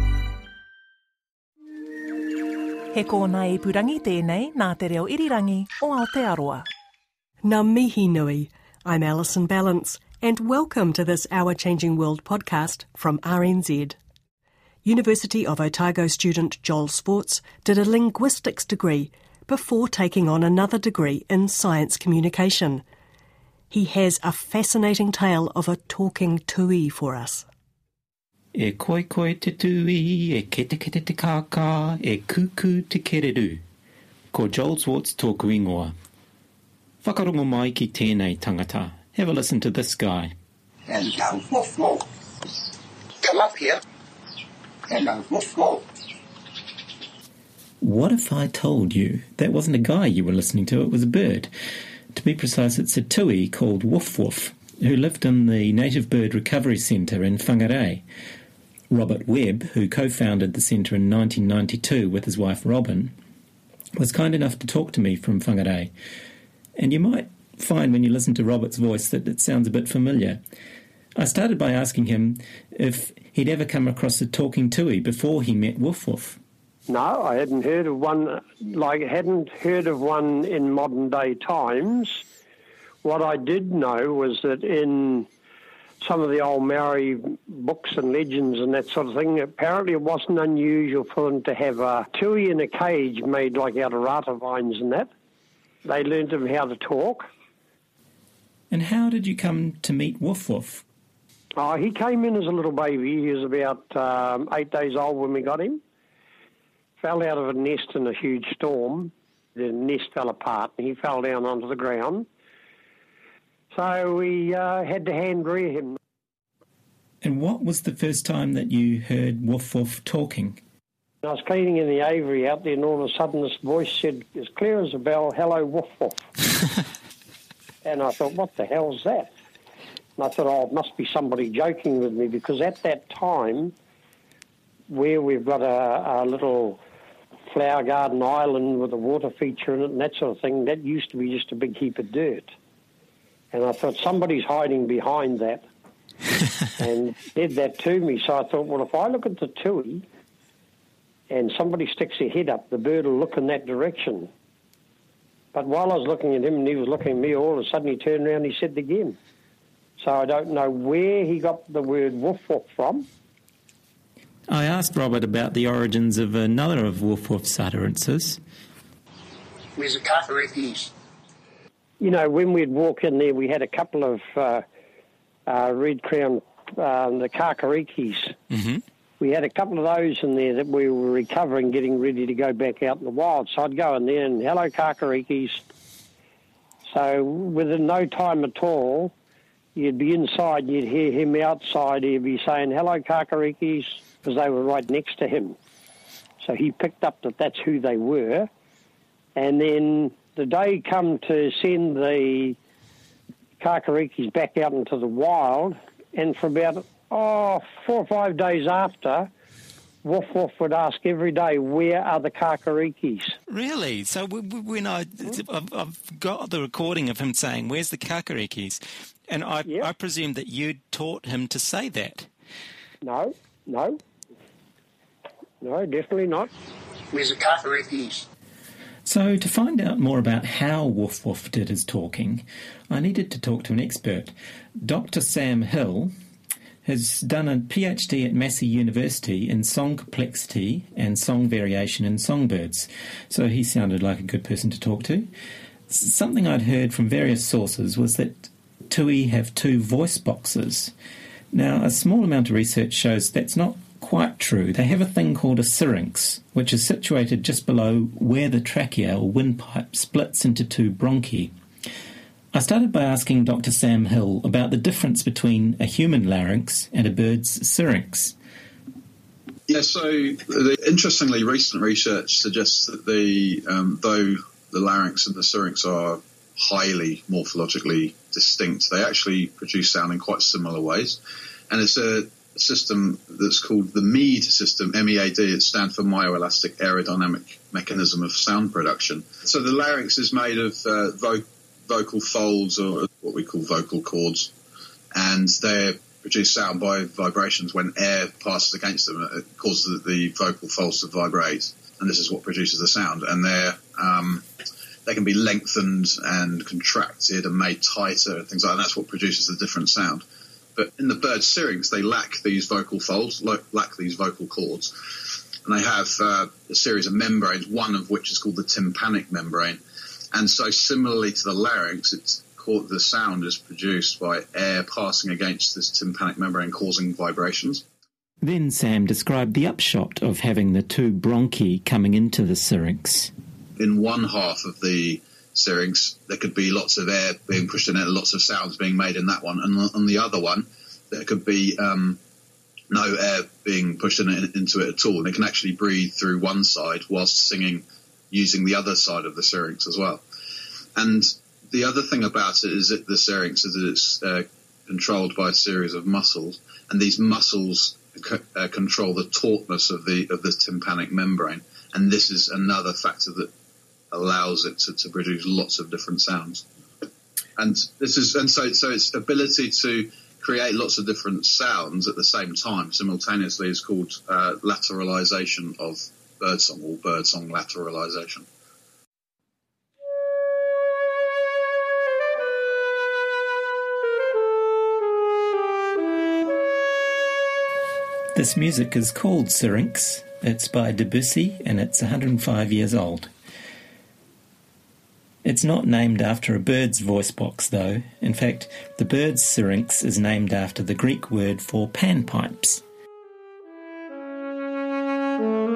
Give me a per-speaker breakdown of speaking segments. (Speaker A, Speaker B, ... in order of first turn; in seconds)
Speaker A: 2.9-6.6
Speaker B: 7.4-13.9, 14.8-22.8, 23.7-27.4
Speaker C: 28.5-33.6, 34.3-35.9, 37.0-40.3, 47.8-51.5, 52.1-58.0, 58.9-63.1, 64.0-65.9, 66.8-70.4, 71.2-76.4, 98.7-100.8, 117.2-120.6, 164.5-168.4, 213.5-222.3, 229.0-236.1, 236.8-245.3, 245.9-250.9, 251.5-261.5, 262.5-268.3, 328.4-333.3, 388.3-393.3, 395.4-402.8
Speaker D: 40.9-42.0, 43.2-43.8, 44.9-45.8, 169.7-170.9, 227.1-228.2
Speaker E: 76.9-82.2, 83.0-85.3, 86.0-95.1, 95.8-97.2, 101.6-105.8, 107.0-112.2, 113.7-116.0, 121.2-126.2, 127.8-129.3, 130.2-133.7, 134.9-136.8, 137.5-142.5, 143.5-145.6, 146.8-150.0, 151.3-154.3, 155.5-159.2, 160.0-163.0, 172.0-174.6, 175.5-178.3, 179.2-185.6, 186.9-189.1, 189.7-195.5, 196.4-198.5, 199.3-202.6, 203.6-209.3, 210.0-213.2, 223.0-224.0, 225.6-226.5
Speaker F: 269.7-281.2, 281.7-294.5, 295.1-304.4, 305.1-310.2, 310.8-314.9, 315.6-319.8, 320.3-327.8, 333.8-342.2, 342.9-350.2, 350.9-363.5, 364.1-366.6, 367.6-378.4